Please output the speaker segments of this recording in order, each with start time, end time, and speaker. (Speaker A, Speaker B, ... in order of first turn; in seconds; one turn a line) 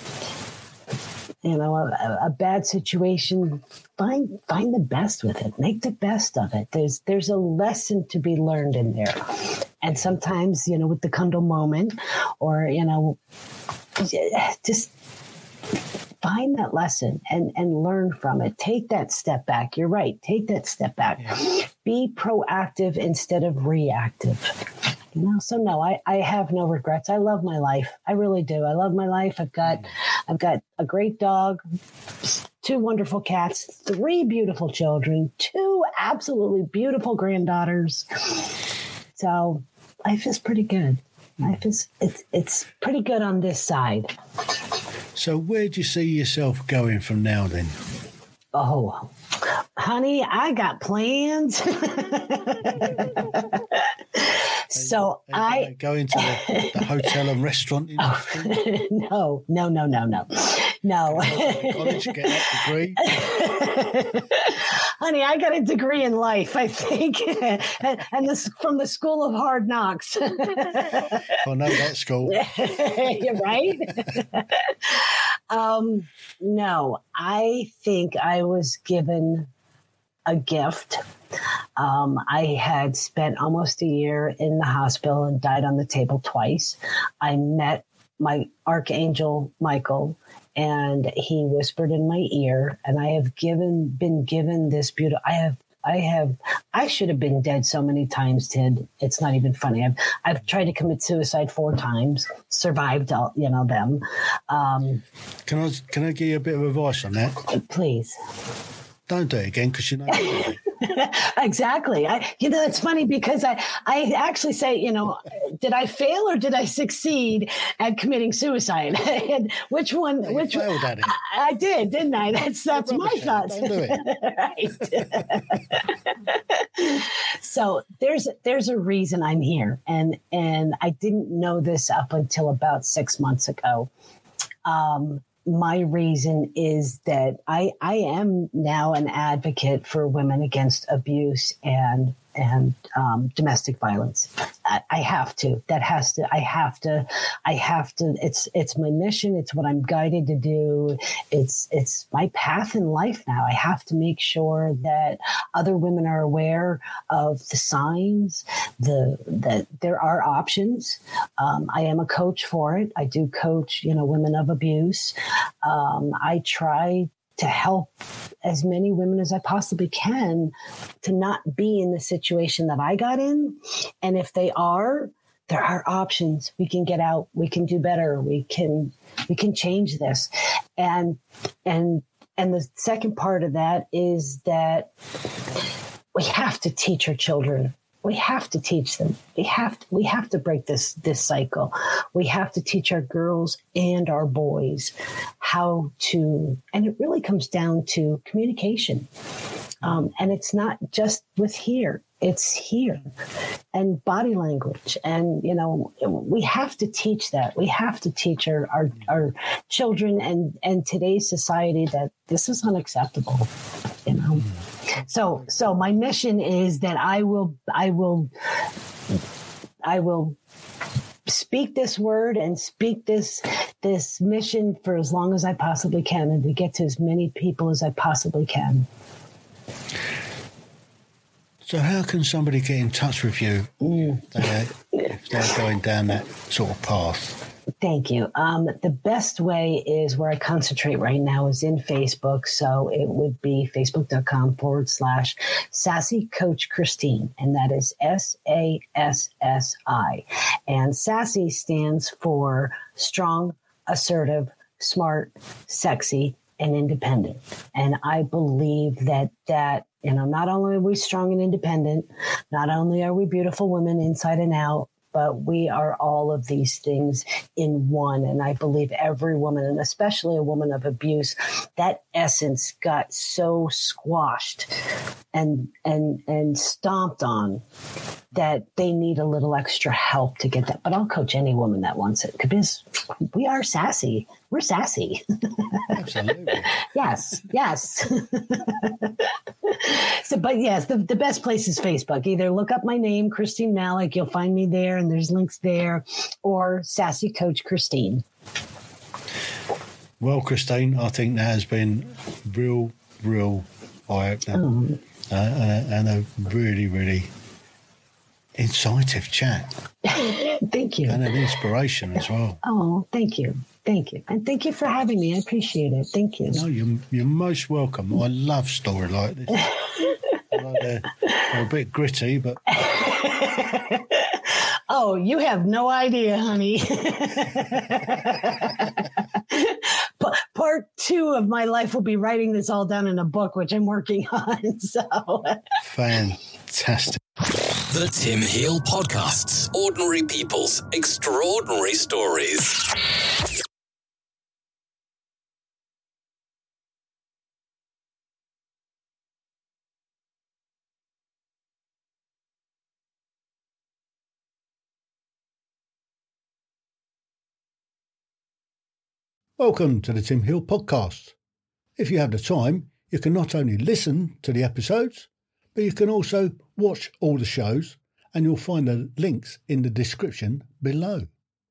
Speaker A: 1.4-13.2
Speaker A: 13.9-14.9
Speaker A: 16.2-31.6
Speaker A: 32.6-38.5
Speaker A: 39.1-44.1
Speaker B: 45.1-47.7
Speaker A: 48.5-57.1
Speaker B: 54.7-58.7
Speaker A: 58.0-62.5
Speaker B: 61.0-63.1
Speaker A: 63.0-71.3
Speaker B: 71.3-72.4
Speaker A: 72.2-79.5
Speaker A: 80.2-81.0
Speaker A: 81.8-105.0
Speaker B: 105.5-107.5
Speaker A: 107.5-108.2
Speaker B: 109.1-110.6
Speaker A: 110.1-133.9
Speaker B: 120.2-121.2
Speaker B: 122.7-124.1
Speaker A: 134.6-184.9
Speaker A: 186.1-199.1
Speaker A: 199.8-203.1
Speaker A: 203.7-213.5
Speaker A: 214.0-218.3
Speaker A: 219.8-220.4
Speaker A: 221.2-228.9
Speaker B: 231.7-237.4
Speaker A: 237.8-274.8
Speaker A: 275.3-277.6
Speaker A: 278.3-298.2
Speaker B: 285.9-286.8
Speaker B: 300.2-304.7
Speaker A: 304.5-305.0
Speaker B: 305.3-307.3
Speaker B: 308.6-309.7
Speaker A: 310.0-311.4
Speaker B: 311.1-312.6
Speaker A: 312.6-316.6
Speaker B: 316.5-319.9
Speaker B: 320.5-322.6
Speaker A: 322.7-335.6
Speaker B: 335.8-337.2
Speaker C: 337.9-342.9
Speaker B: 359.6-361.4
Speaker B: 362.0-371.3